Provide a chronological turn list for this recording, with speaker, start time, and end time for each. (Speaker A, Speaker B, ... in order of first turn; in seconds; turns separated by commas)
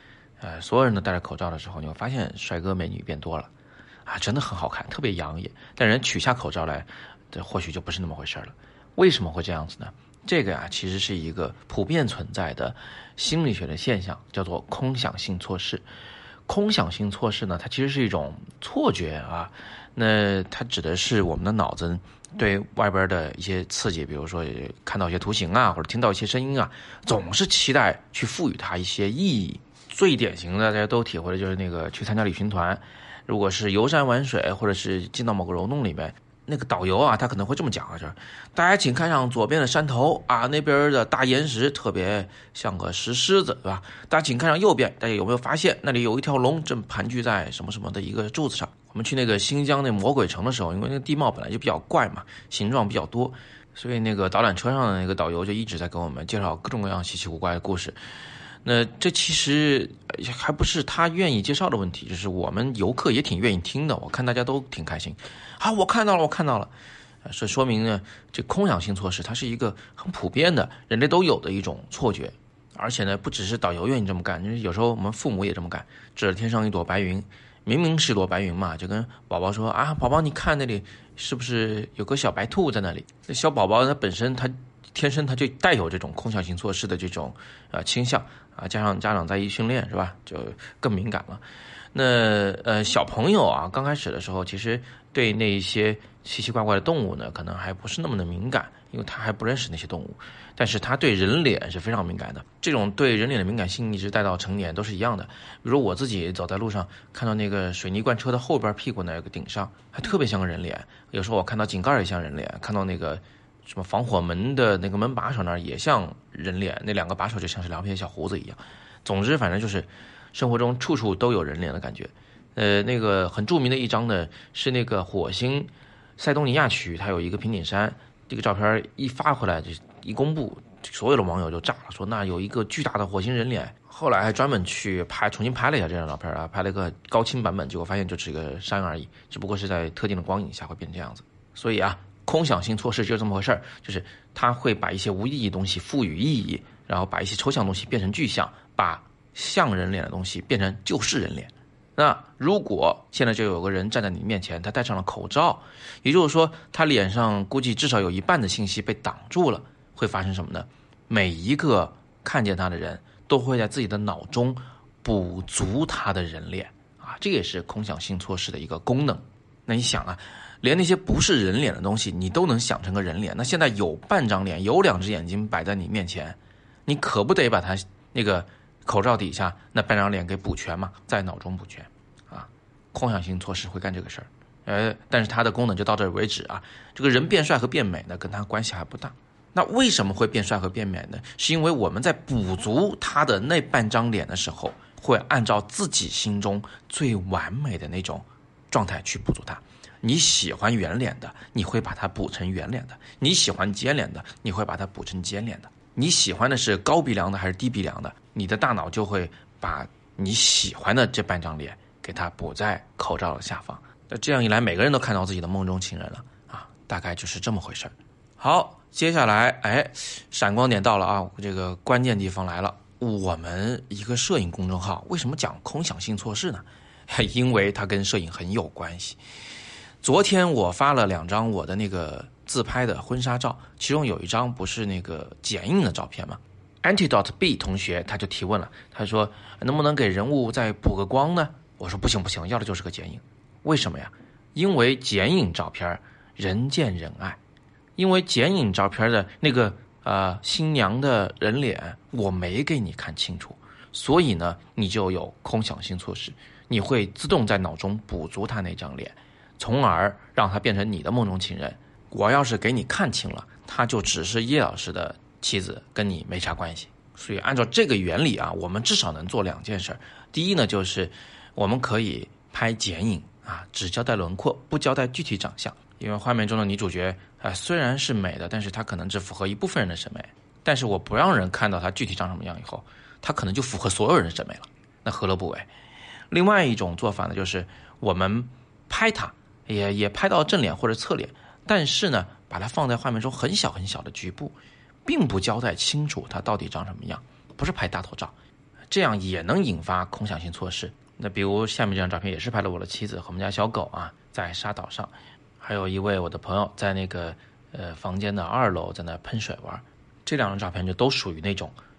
Speaker A: 0.4-3.5, Speaker A: 4.0-15.8, Speaker A: 16.5-58.0, Speaker A: 58.6-66.7, Speaker A: 67.2-229.2, Speaker A: 230.0-247.4, Speaker A: 248.0-285.7, Speaker A: 286.3-298.3, Speaker A: 298.9-311.7